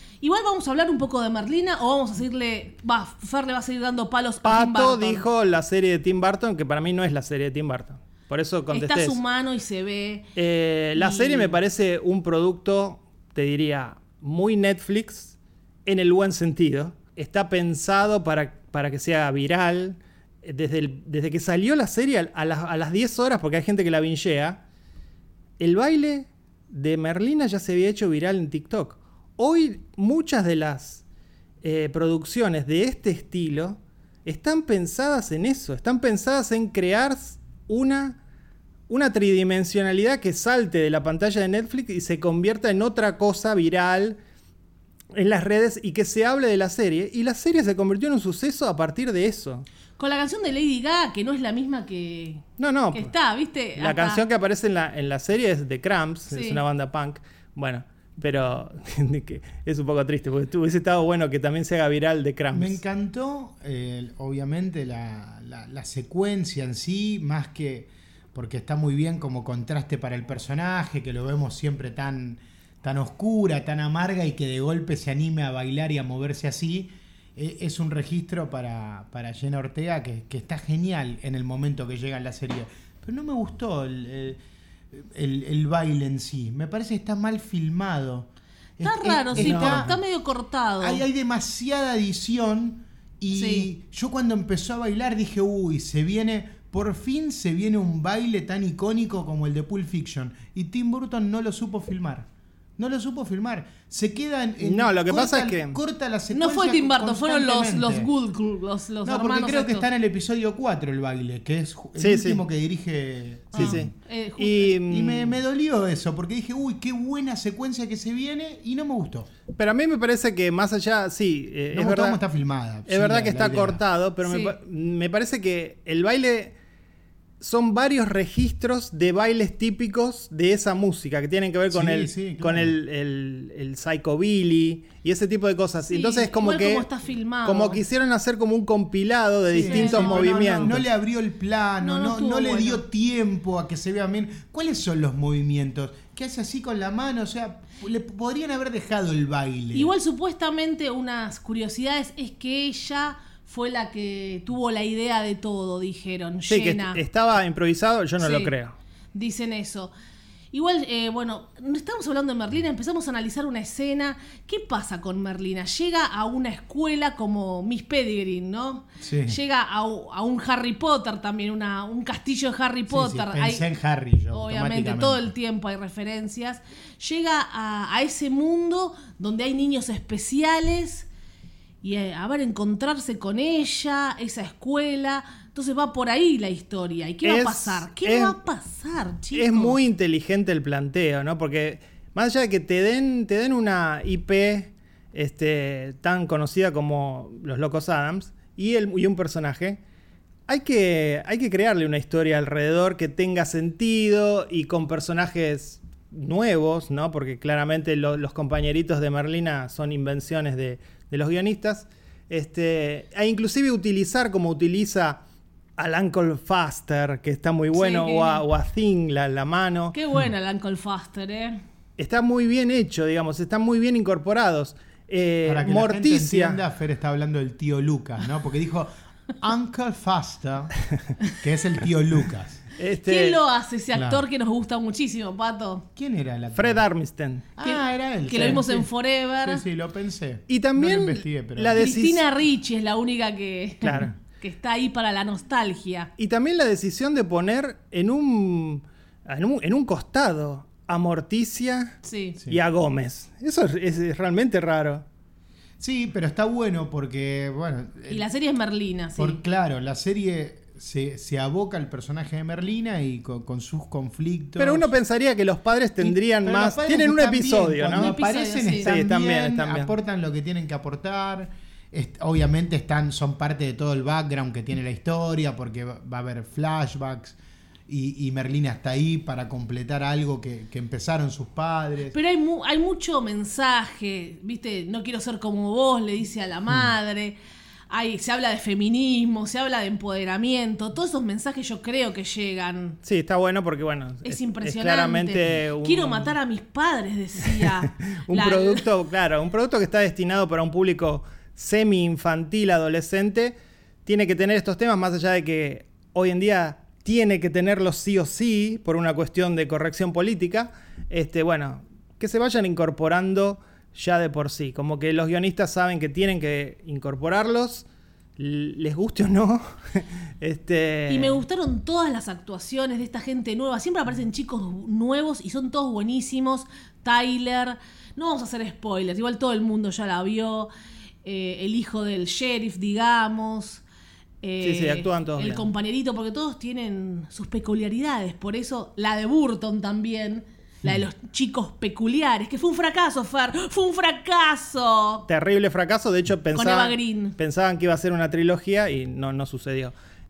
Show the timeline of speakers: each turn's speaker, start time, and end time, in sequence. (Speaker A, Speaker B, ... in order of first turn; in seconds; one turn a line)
Speaker A: 0.2-5.2
Speaker B: 4.4-9.2
Speaker A: 8.7-10.3
Speaker B: 10.3-24.6
Speaker A: 10.9-11.6
Speaker B: 25.6-31.0
Speaker B: 31.6-38.2
Speaker B: 38.9-44.2
Speaker B: 45.1-49.6
Speaker A: 50.0-54.2
Speaker B: 52.6-53.1
Speaker B: 53.8-62.8
Speaker A: 56.3-56.6
Speaker C: 62.5-84.4
Speaker C: 84.9-90.0
Speaker A: 88.8-91.0
Speaker B: 89.3-90.0
Speaker C: 90.8-102.3
Speaker A: 93.3-93.7
Speaker C: 102.8-108.1
Speaker B: 104.6-105.8
Speaker A: 106.3-109.8
Speaker C: 109.0-113.9
Speaker B: 112.0-112.4
Speaker A: 113.5-114.8
Speaker B: 113.5-115.4
Speaker C: 114.9-119.3
Speaker B: 119.5-122.2
Speaker C: 121.7-123.8
Speaker B: 122.8-126.5
Speaker A: 124.2-124.5
Speaker B: 127.4-136.9
Speaker C: 131.7-132.7
Speaker A: 135.9-137.8
Speaker B: 137.4-140.8
Speaker A: 139.5-140.8
Speaker C: 139.5-149.9
Speaker A: 141.8-142.8
Speaker A: 149.7-157.0
Speaker B: 156.5-158.7
Speaker A: 158.2-158.5
Speaker A: 159.1-159.9
Speaker A: 160.5-173.6
Speaker C: 169.0-169.4
Speaker C: 172.9-175.3
Speaker A: 174.3-181.1
Speaker A: 181.8-189.8
Speaker B: 187.2-188.4
Speaker B: 189.3-199.8
Speaker B: 200.5-215.2
Speaker B: 215.8-220.0
Speaker A: 217.7-218.4
Speaker A: 219.9-221.6
Speaker B: 222.0-226.6
Speaker C: 225.4-230.7
Speaker C: 231.4-232.6
Speaker B: 232.8-233.4
Speaker A: 233.0-235.8
Speaker C: 233.9-234.2
Speaker C: 235.9-236.8
Speaker B: 236.5-237.5
Speaker C: 237.5-238.9
Speaker A: 237.6-239.6
Speaker C: 239.4-241.9
Speaker B: 240.5-242.2
Speaker A: 241.8-246.1
Speaker C: 243.8-244.1
Speaker B: 246.2-255.0
Speaker A: 252.0-252.4
Speaker C: 255.8-258.2
Speaker A: 258.1-259.4
Speaker C: 259.2-264.9
Speaker B: 264.6-268.1
Speaker C: 266.0-277.4
Speaker A: 267.9-268.9
Speaker B: 268.8-269.9
Speaker C: 277.9-282.1
Speaker A: 282.1-287.4
Speaker A: 287.9-293.0
Speaker B: 293.0-296.4
Speaker A: 294.2-298.8
Speaker B: 297.4-317.8
Speaker B: 318.4-321.4
Speaker A: 321.1-330.7
Speaker A: 331.2-333.8
Speaker A: 334.4-345.2
Speaker B: 334.6-335.7
Speaker B: 345.3-349.9
Speaker A: 346.5-347.4